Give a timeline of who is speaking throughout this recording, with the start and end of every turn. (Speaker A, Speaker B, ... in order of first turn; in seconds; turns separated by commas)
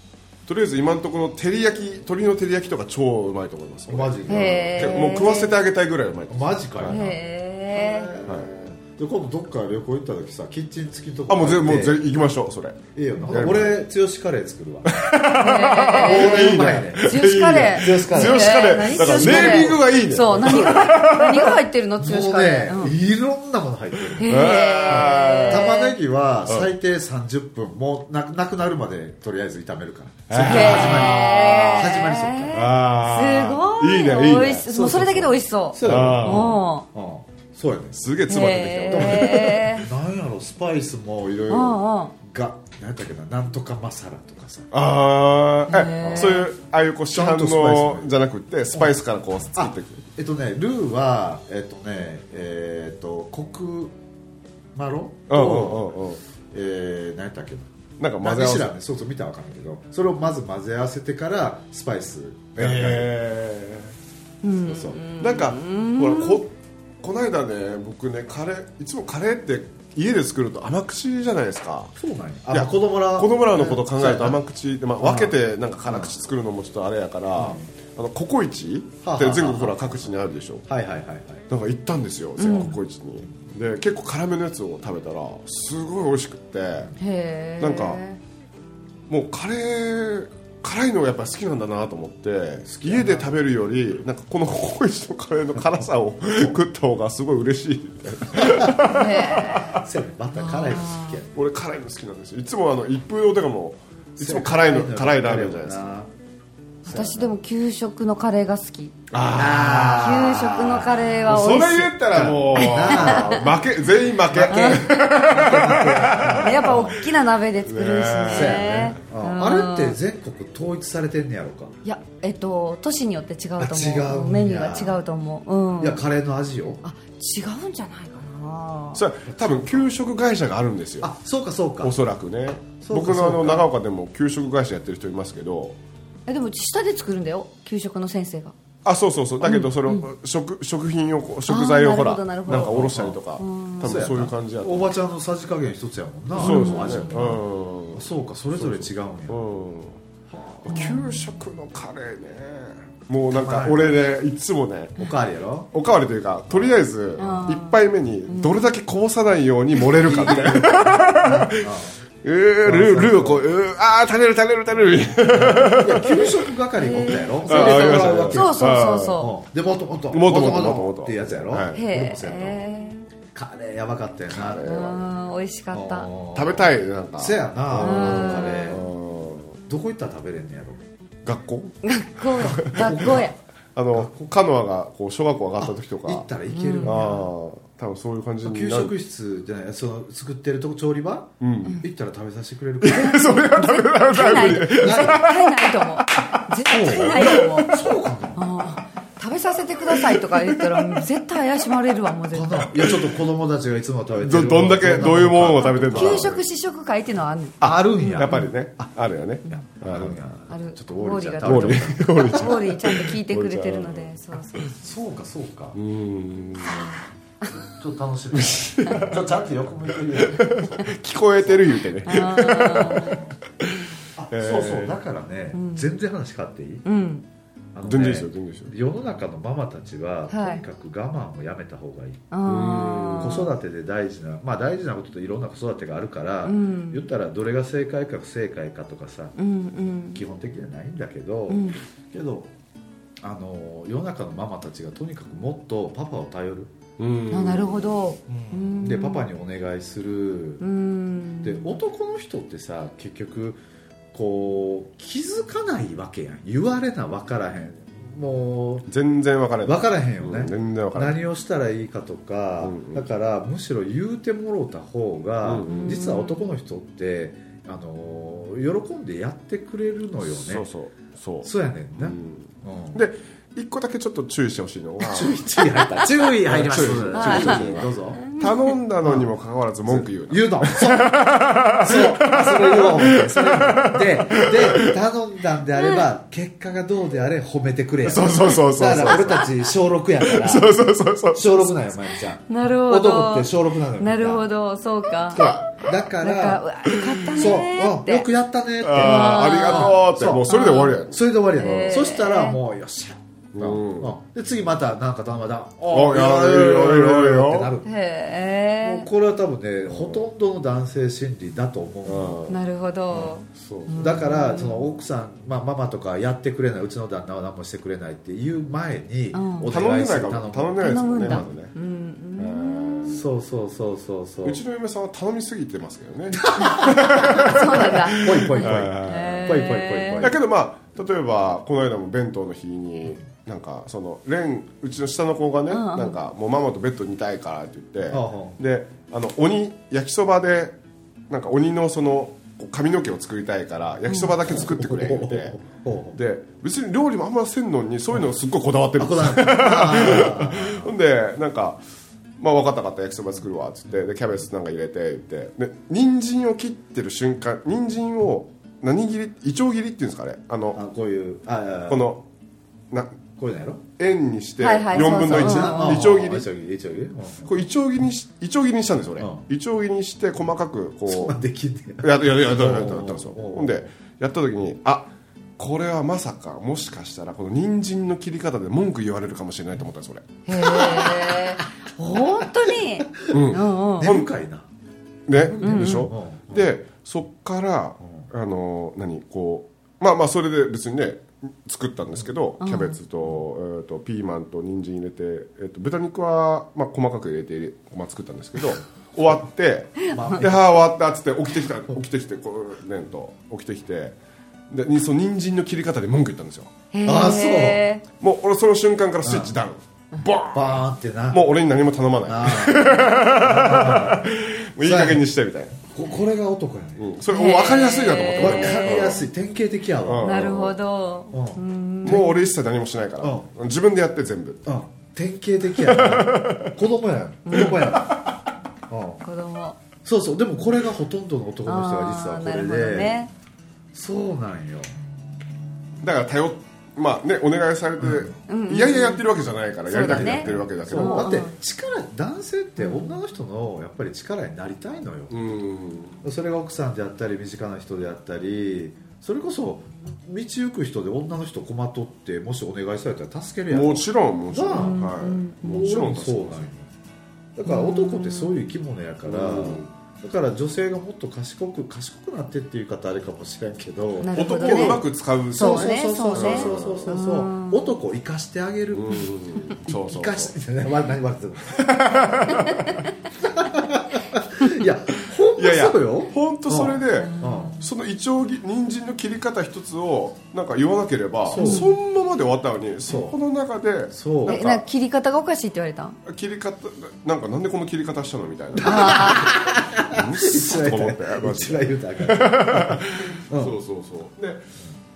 Speaker A: 0.5-7.0, Speaker B: 3.9-5.2, Speaker C: 4.3-5.6, Speaker B: 6.3-7.2, Speaker C: 6.9-8.1, Speaker B: 7.7-12.0, Speaker A: 11.3-13.8, Speaker B: 12.9-15.1, Speaker A: 14.9-21.6, Speaker C: 15.2-22.9, Speaker B: 15.9-17.2, Speaker B: 17.7-19.8, Speaker B: 22.0-32.8, Speaker C: 24.2-26.0, Speaker A: 24.2-25.7, Speaker A: 30.3-34.9, Speaker C: 30.4-36.9, Speaker B: 34.7-38.0, Speaker A: 35.8-36.6, Speaker A: 38.0-39.9, Speaker C: 38.3-39.9, Speaker B: 38.9-41.6, Speaker A: 41.2-41.8, Speaker C: 41.5-42.1, Speaker B: 42.2-44.7, Speaker A: 44.7-50.0, Speaker C: 45.7-46.5, Speaker B: 46.1-46.4, Speaker B: 47.1-48.1, Speaker B: 49.5-54.0, Speaker B: 54.7-55.9, Speaker A: 55.3-56.2, Speaker B: 56.5-57.7, Speaker A: 58.0-58.7, Speaker B: 58.2-63.1, Speaker A: 62.6-63.9, Speaker C: 64.4-66.4, Speaker B: 64.7-65.0, Speaker A: 65.0-72.0, Speaker B: 72.0-74.4, Speaker A: 72.5-80.7, Speaker B: 75.0-76.1, Speaker B: 77.4-77.7, Speaker B: 79.0-81.5, Speaker A: 81.5-86.9, Speaker C: 82.4-82.8, Speaker C: 87.0-88.2, Speaker A: 87.6-88.0, Speaker A: 89.1-99.8, Speaker B: 92.7-93.4, Speaker B: 98.4-101.3, Speaker C: 98.8-99.7, Speaker C: 100.4-101.2, Speaker A: 101.3-105.9, Speaker B: 104.2-106.1, Speaker B: 106.8-107.3, Speaker C: 106.8-108.9, Speaker A: 109.1-110.3, Speaker B: 109.3-111.5, Speaker C: 109.9-111.9, Speaker A: 111.2-117.0, Speaker B: 112.1-113.7, Speaker C: 112.5-113.5, Speaker B: 114.3-117.0, Speaker C: 114.5-114.9, Speaker C: 116.3-120.0, Speaker A: 117.6-119.0, Speaker B: 118.2-121.7, Speaker C: 121.8-126.0, Speaker B: 123.6-125.0, Speaker B: 125.8-126.8, Speaker C: 126.8-129.0, Speaker A: 128.9-131.1, Speaker B: 131.0-131.9, Speaker A: 131.8-135.8, Speaker B: 132.8-133.7, Speaker C: 136.3-138.5, Speaker A: 138.8-144.9, Speaker C: 139.4-140.1, Speaker C: 141.5-144.1, Speaker B: 142.5-143.2, Speaker B: 143.8-149.5, Speaker A: 146.3-150.0, Speaker C: 146.4-147.3, Speaker B: 150.3-151.0, Speaker A: 150.6-155.0, Speaker C: 150.7-151.2, Speaker B: 153.3-154.1, Speaker B: 155.0-155.7, Speaker A: 155.7-166.4, Speaker B: 156.5-156.8, Speaker C: 157.2-158.7, Speaker B: 159.9-162.0, Speaker B: 162.6-163.5, Speaker B: 165.3-172.7, Speaker C: 166.8-169.3, Speaker A: 167.5-169.2, Speaker A: 170.1-171.8, Speaker C: 171.7-173.1, Speaker B: 173.3-174.8, Speaker A: 174.3-175.1, Speaker C: 174.6-176.1, Speaker B: 175.7-178.9, Speaker A: 176.3-179.6, Speaker C: 177.8-178.8, Speaker B: 179.7-180.8, Speaker A: 181.2-186.3, Speaker C: 181.8-183.4, Speaker B: 182.4-183.3, Speaker B: 183.9-184.3, Speaker B: 185.6-187.3, Speaker C: 186.5-187.1, Speaker A: 186.8-188.9, Speaker B: 188.4-193.4, Speaker A: 191.4-191.8, Speaker A: 192.8-197.7, Speaker C: 193.2-197.7, Speaker B: 194.7-195.3, Speaker B: 196.7-198.5, Speaker C: 198.4-202.8, Speaker A: 199.9-201.0, Speaker B: 202.3-206.3, Speaker A: 204.2-206.4, Speaker C: 205.6-208.5, Speaker A: 207.6-210.2, Speaker B: 207.6-208.9, Speaker B: 209.5-212.5, Speaker C: 210.5-214.8, Speaker A: 211.4-214.1, Speaker B: 214.8-215.8, Speaker A: 215.7-216.9, Speaker C: 216.6-217.7, Speaker B: 217.6-220.8, Speaker A: 218.3-219.3, Speaker A: 219.9-223.7, Speaker B: 221.4-223.3, Speaker C: 222.1-223.2, Speaker B: 224.2-226.8, Speaker A: 224.3-225.0, Speaker C: 225.5-225.9, Speaker C: 226.8-227.3, Speaker B: 227.7-232.2, Speaker A: 227.8-228.8, Speaker C: 230.3-230.6, Speaker C: 232.3-233.5, Speaker A: 232.4-233.5, Speaker B: 233.2-239.3, Speaker C: 236.4-237.1, Speaker C: 239.4-240.2, Speaker B: 240.1-242.5, Speaker C: 241.5-241.8, Speaker B: 243.2-246.7, Speaker A: 247.0-247.9, Speaker C: 247.3-249.3, Speaker B: 248.3-250.6, Speaker C: 250.6-251.7, Speaker B: 251.4-253.6, Speaker B: 254.1-258.9, Speaker A: 258.9-261.2, Speaker B: 259.6-270.7, Speaker A: 262.6-263.0, Speaker A: 265.4-266.1, Speaker C: 265.7-266.4, Speaker A: 270.3-285.0, Speaker B: 271.4-273.0, Speaker B: 275.0-278.3, Speaker C: 277.1-278.7, Speaker B: 279.0-279.3, Speaker B: 279.9-294.5, Speaker C: 285.8-286.1, Speaker A: 288.0-289.6, Speaker C: 289.1-289.4, Speaker A: 290.2-291.7, Speaker C: 292.5-295.5, Speaker A: 295.3-295.9, Speaker B: 295.4-296.6, Speaker C: 296.2-298.3, Speaker A: 297.2-297.6, Speaker B: 297.3-300.5, Speaker A: 298.8-301.2, Speaker C: 299.0-302.6, Speaker B: 301.1-307.9, Speaker A: 303.5-304.1, Speaker A: 305.9-307.7, Speaker C: 307.8-309.1, Speaker B: 308.8-312.4, Speaker A: 309.9-310.2, Speaker A: 312.1-312.6, Speaker C: 312.5-314.9, Speaker B: 313.1-321.5, Speaker C: 319.3-319.8, Speaker A: 319.7-321.7, Speaker C: 320.8-323.2, Speaker A: 322.4-323.2, Speaker B: 323.1-324.6, Speaker A: 324.4-329.6, Speaker B: 326.4-330.4, Speaker C: 326.7-330.3, Speaker A: 330.2-340.8, Speaker C: 335.7-336.2, Speaker B: 338.1-338.6, Speaker A: 341.3-351.8, Speaker C: 344.1-344.4, Speaker B: 344.4-346.2, Speaker B: 349.0-350.9, Speaker A: 352.4-360.8, Speaker B: 360.7-362.1, Speaker A: 361.9-362.2, Speaker A: 362.9-363.2, Speaker B: 363.4-363.8, Speaker A: 364.0-366.5, Speaker C: 364.6-366.0, Speaker B: 364.9-367.6, Speaker A: 367.5-371.4, Speaker B: 369.2-369.4, Speaker B: 371.1-373.9, Speaker A: 372.0-380.4, Speaker C: 380.5-384.1, Speaker B: 380.6-381.4, Speaker B: 382.4-384.7, Speaker A: 383.3-384.3, Speaker A: 385.3-404.2, Speaker B: 385.4-386.7, Speaker C: 385.6-386.1, Speaker C: 392.6-393.0, Speaker C: 400.1-400.4, Speaker B: 400.1-400.6, Speaker A: 404.7-406.7, Speaker C: 406.9-408.0, Speaker B: 407.1-407.8, Speaker A: 408.2-415.9, Speaker B: 409.2-409.5, Speaker B: 410.5-411.4, Speaker B: 412.3-414.3, Speaker B: 414.8-415.2, Speaker B: 415.9-417.1, Speaker A: 417.0-419.2, Speaker C: 417.3-419.2, Speaker B: 418.4-420.6, Speaker A: 420.1-420.8, Speaker C: 420.2-422.3, Speaker B: 421.3-422.3, Speaker A: 422.0-424.6, Speaker B: 423.2-423.5, Speaker B: 424.7-428.2, Speaker A: 425.8-426.8, Speaker C: 427.5-428.0, Speaker A: 427.5-428.3, Speaker B: 428.9-429.2, Speaker C: 429.2-429.8, Speaker B: 430.1-433.2, Speaker C: 431.7-433.3, Speaker B: 433.9-435.0, Speaker A: 436.0-441.3, Speaker B: 438.0-438.3, Speaker C: 438.5-439.2, Speaker C: 439.9-441.5, Speaker B: 439.9-445.4, Speaker C: 442.8-443.2, Speaker A: 445.3-446.2, Speaker B: 446.2-455.1, Speaker A: 453.7-456.7, Speaker C: 454.7-455.8, Speaker B: 455.6-456.9, Speaker B: 457.6-469.3, Speaker C: 457.6-458.6, Speaker A: 459.3-459.9, Speaker C: 464.2-468.0, Speaker A: 464.3-467.2, Speaker A: 468.9-470.6, Speaker B: 469.8-472.9, Speaker A: 471.7-473.0, Speaker B: 473.4-477.8, Speaker A: 475.6-484.9, Speaker C: 477.2-477.9, Speaker B: 481.5-481.9, Speaker C: 481.6-481.9, Speaker B: 483.1-483.4, Speaker B: 484.1-484.6, Speaker C: 484.5-486.2, Speaker A: 486.3-494.7, Speaker B: 488.8-493.8, Speaker C: 488.8-489.6